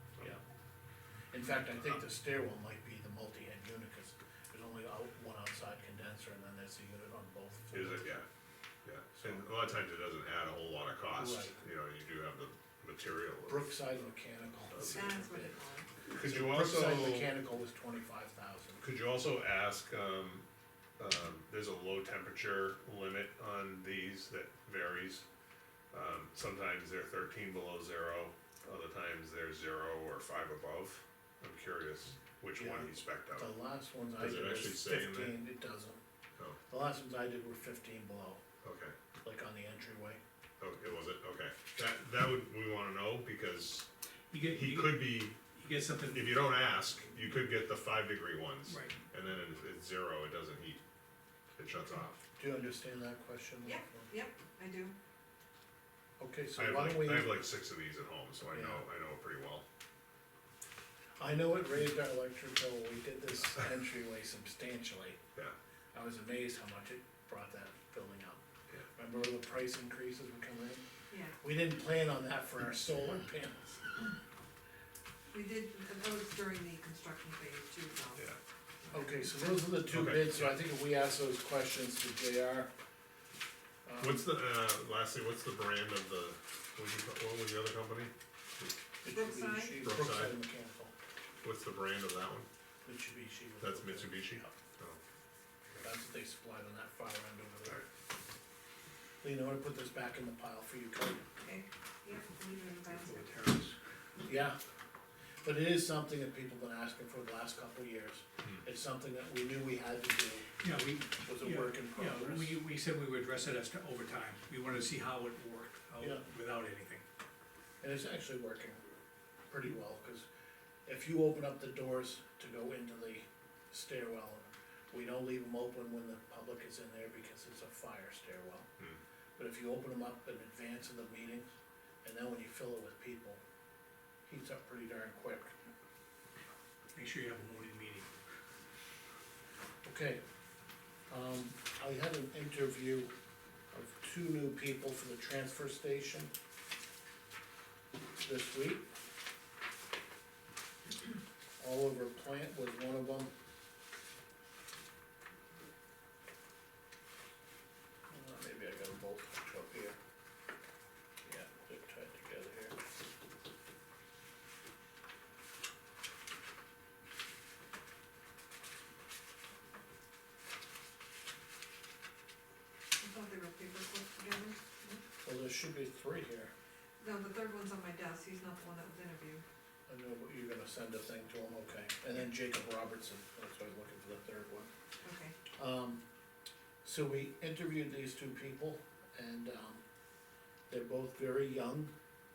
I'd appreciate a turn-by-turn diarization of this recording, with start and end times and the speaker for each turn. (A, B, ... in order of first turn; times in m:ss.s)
0:01.3-0:08.1 A
0:07.7-0:08.2 B
0:08.8-0:13.7 B
0:09.2-0:09.4 A
0:11.2-0:11.6 A
0:13.5-0:15.6 A
0:14.7-0:15.2 B
0:14.9-0:15.9 C
0:16.0-0:17.3 B
0:16.2-0:18.8 A
0:18.8-0:20.4 B
0:21.0-0:25.2 B
0:25.9-0:33.5 B
0:32.5-0:36.0 A
0:34.2-0:35.4 B
0:36.7-0:38.4 A
0:38.6-0:38.9 B
0:39.2-0:40.2 A
0:40.6-0:43.9 B
0:44.3-0:46.3 D
0:44.4-0:45.4 B
0:46.0-0:50.8 B
0:48.7-0:48.9 D
0:51.6-0:52.2 B
0:52.4-0:54.1 A
0:53.6-0:54.9 C
0:56.2-0:57.4 A
0:56.6-0:59.6 B
0:58.5-0:58.8 A
1:01.2-1:05.2 A
1:05.9-1:08.4 A
1:09.0-1:10.8 A
1:11.1-1:11.4 C
1:11.4-1:13.8 A
1:15.3-1:18.3 C
1:18.8-1:19.7 C
1:18.9-1:22.7 A
1:19.9-1:20.6 B
1:23.8-1:24.2 A
1:24.0-1:28.7 B
1:29.0-1:30.9 A
1:29.1-1:29.8 C
1:29.8-1:30.4 B
1:31.4-1:32.5 B
1:32.8-1:34.5 A
1:33.6-1:35.0 B
1:35.8-1:37.8 A
1:39.2-1:41.3 A
1:41.4-1:43.3 C
1:42.9-1:43.8 D
1:44.2-1:44.6 A
1:45.4-1:52.6 A
1:50.6-1:57.0 D
1:57.8-1:58.8 A
1:59.5-2:00.2 A
2:00.8-2:08.7 A
2:09.4-2:11.5 A
2:12.0-2:13.4 A
2:14.3-2:15.6 A
2:16.9-2:18.1 D
2:19.8-2:20.2 A
2:21.1-2:23.1 A
2:23.7-2:26.3 A
2:28.2-2:28.9 A
2:31.6-2:33.3 A
2:38.1-2:40.0 A
2:41.2-2:42.8 A
2:53.0-2:55.0 C
2:55.2-2:56.5 A
2:57.0-2:59.4 C
2:59.9-3:04.7 A
3:05.0-3:05.4 C
3:05.5-3:06.0 A
3:06.8-3:09.8 A
3:10.7-3:11.9 A